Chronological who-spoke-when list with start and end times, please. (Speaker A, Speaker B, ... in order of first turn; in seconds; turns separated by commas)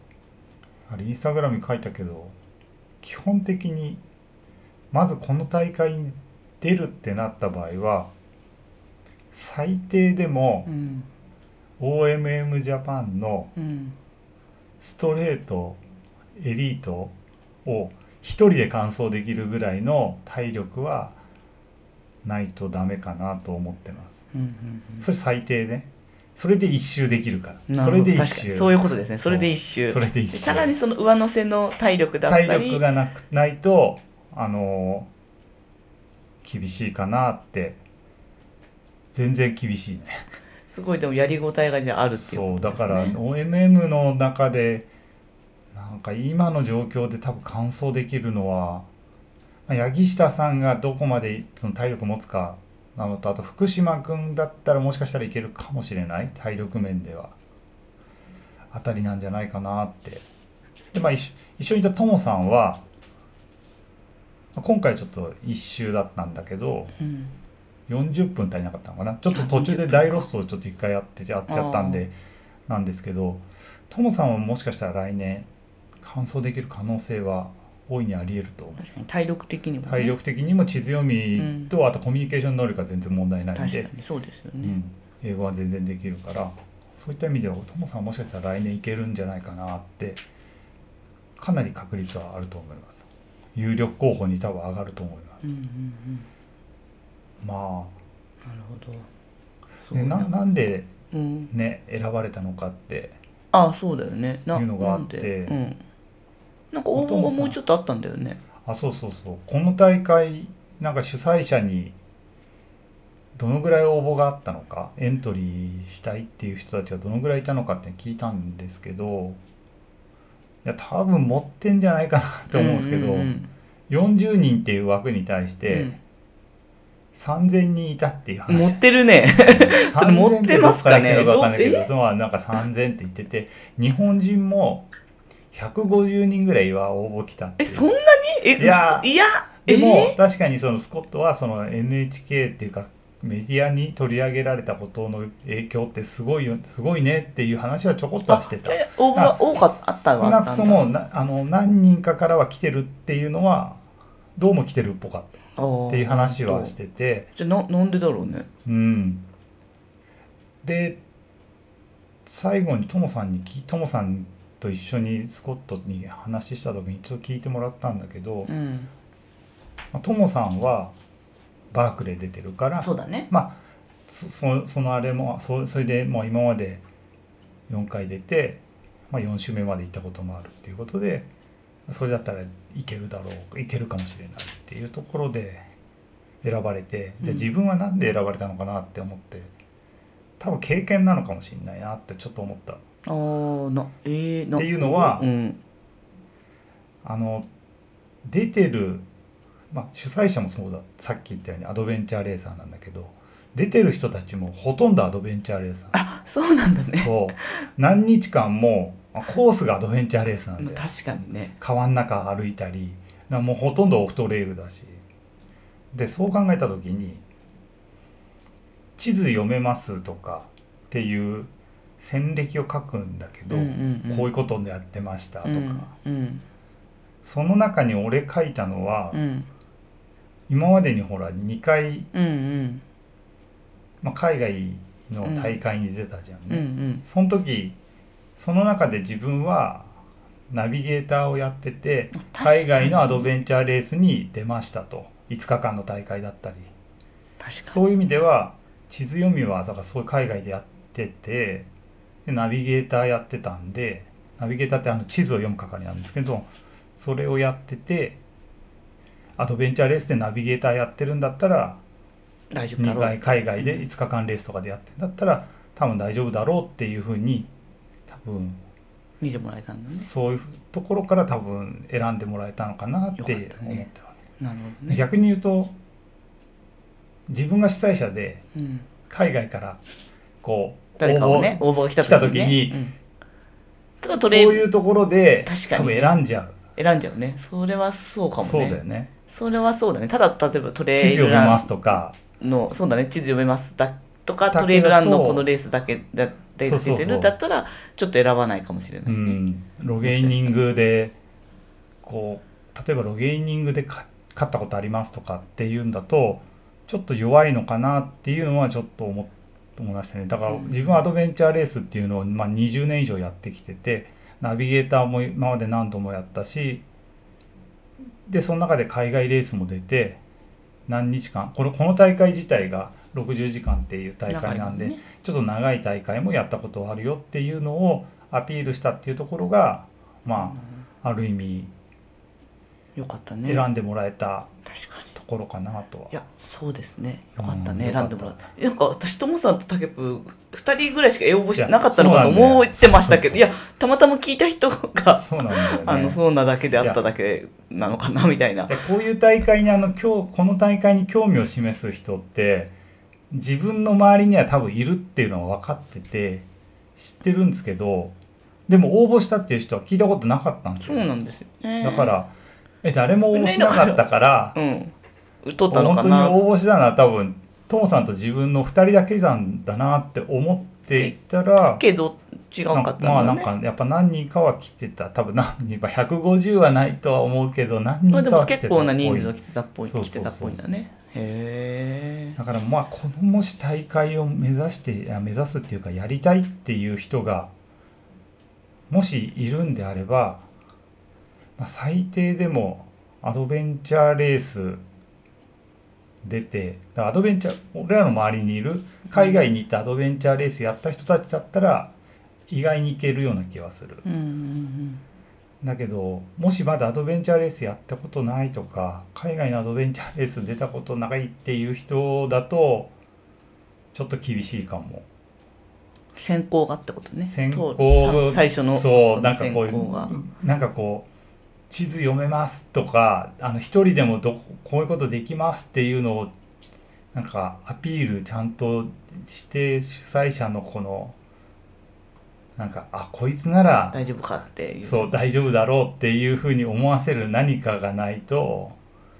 Speaker A: 0.9-2.4, Speaker A: 3.0-4.0, Speaker A: 4.9-8.1, Speaker A: 9.3-10.7, Speaker B: 10.7-11.1, Speaker A: 11.8-13.5, Speaker B: 13.6-14.0, Speaker A: 14.8-15.8, Speaker A: 16.4-17.1, Speaker A: 17.6-21.2, Speaker A: 22.2-24.2, Speaker B: 24.3-25.1, Speaker A: 25.0-30.7, Speaker B: 27.7-32.8, Speaker A: 32.3-35.1, Speaker A: 36.4-37.8, Speaker A: 39.1-40.2, Speaker B: 40.7-43.2, Speaker A: 42.1-44.9, Speaker A: 45.7-48.9, Speaker A: 49.7-57.3, Speaker A: 58.7-60.2, Speaker A: 60.9-62.8, Speaker A: 64.5-67.0, Speaker B: 67.0-67.3, Speaker A: 67.9-72.1, Speaker B: 69.3-70.3, Speaker B: 71.5-72.0, Speaker A: 72.7-75.5, Speaker A: 76.0-78.8, Speaker B: 78.8-80.1, Speaker A: 79.8-83.9, Speaker B: 81.3-81.7, Speaker B: 83.5-84.8, Speaker A: 84.6-90.2, Speaker A: 91.4-95.4, Speaker B: 95.4-96.3, Speaker A: 97.4-98.0, Speaker B: 98.4-99.1, Speaker B: 99.8-100.3, Speaker A: 99.9-100.9, Speaker B: 101.1-101.5, Speaker A: 101.5-103.2, Speaker B: 103.5-105.8, Speaker A: 104.5-105.5, Speaker B: 106.7-108.4, Speaker A: 106.9-107.6, Speaker A: 108.6-111.9, Speaker A: 113.3-119.4, Speaker A: 120.6-123.3, Speaker B: 122.5-123.5, Speaker A: 123.9-126.0, Speaker B: 125.7-126.0, Speaker A: 127.1-134.9, Speaker B: 128.5-131.9, Speaker A: 135.5-137.9, Speaker B: 137.6-140.2, Speaker A: 138.6-153.8, Speaker B: 148.3-150.9, Speaker A: 154.3-155.4, Speaker B: 155.6-156.8, Speaker A: 155.9-157.3, Speaker B: 157.3-158.5, Speaker A: 158.7-159.2, Speaker A: 160.6-161.0, Speaker A: 162.2-168.5, Speaker B: 168.4-168.9, Speaker A: 169.9-170.9, Speaker A: 171.7-176.8, Speaker B: 172.8-173.3, Speaker A: 177.7-181.3, Speaker A: 181.9-185.7, Speaker A: 186.4-189.5, Speaker B: 187.2-187.5, Speaker A: 190.4-192.8, Speaker B: 193.0-195.6, Speaker A: 194.6-195.3, Speaker A: 197.0-197.5, Speaker A: 198.2-199.1, Speaker A: 199.7-205.9, Speaker B: 205.9-207.1, Speaker A: 207.0-210.9, Speaker B: 210.6-211.5, Speaker A: 211.6-215.0, Speaker A: 215.9-217.2, Speaker A: 219.0-225.9, Speaker B: 223.5-224.3, Speaker B: 225.4-226.4, Speaker A: 227.2-229.2, Speaker B: 229.1-229.5, Speaker A: 230.5-232.1, Speaker B: 232.1-232.8, Speaker A: 234.0-237.8, Speaker B: 235.2-235.6, Speaker B: 236.5-237.0, Speaker A: 238.4-239.9, Speaker A: 240.5-246.7, Speaker B: 242.1-243.3, Speaker B: 247.4-247.8, Speaker A: 247.7-251.7, Speaker A: 252.2-258.2, Speaker A: 259.4-261.8, Speaker B: 262.5-263.8, Speaker A: 262.8-267.5, Speaker A: 268.1-268.6, Speaker B: 269.2-270.1, Speaker A: 269.9-274.1, Speaker B: 273.2-273.9, Speaker B: 274.4-275.0, Speaker A: 274.9-275.7, Speaker A: 277.3-278.4, Speaker B: 278.5-278.9, Speaker A: 279.1-279.8, Speaker A: 280.4-282.8, Speaker B: 281.0-282.9, Speaker B: 284.0-284.7, Speaker A: 284.2-286.6, Speaker B: 285.4-286.2, Speaker B: 286.8-291.7, Speaker A: 288.4-289.1, Speaker A: 290.9-292.2, Speaker B: 292.4-299.4, Speaker A: 294.5-295.5, Speaker A: 296.6-297.3, Speaker A: 299.0-301.1, Speaker B: 300.0-300.6, Speaker A: 302.0-316.8, Speaker B: 310.5-311.0, Speaker A: 318.2-320.2, Speaker A: 320.9-331.7, Speaker B: 324.3-325.0, Speaker B: 330.3-330.8, Speaker B: 332.9-333.7, Speaker A: 333.4-334.5, Speaker B: 334.7-335.1, Speaker A: 335.1-336.1, Speaker B: 336.1-348.7, Speaker A: 337.4-338.5, Speaker A: 341.6-343.5, Speaker A: 345.2-346.2, Speaker A: 348.7-352.7, Speaker A: 353.3-358.1, Speaker A: 358.7-361.1, Speaker B: 360.8-362.1, Speaker A: 361.8-364.6, Speaker B: 363.3-366.4, Speaker A: 365.7-371.8, Speaker B: 371.0-373.5, Speaker A: 372.7-379.3, Speaker B: 378.1-382.4, Speaker A: 379.9-380.6, Speaker A: 382.4-387.5, Speaker A: 388.9-390.4, Speaker A: 391.6-394.8, Speaker A: 396.2-401.9, Speaker B: 399.1-399.4, Speaker A: 402.5-404.0, Speaker B: 404.0-405.0, Speaker A: 405.6-412.9, Speaker A: 413.9-415.1, Speaker B: 416.1-420.2, Speaker A: 417.3-421.1, Speaker A: 421.7-426.3, Speaker A: 427.1-431.1, Speaker A: 432.6-434.0, Speaker B: 433.9-435.1, Speaker A: 434.8-438.8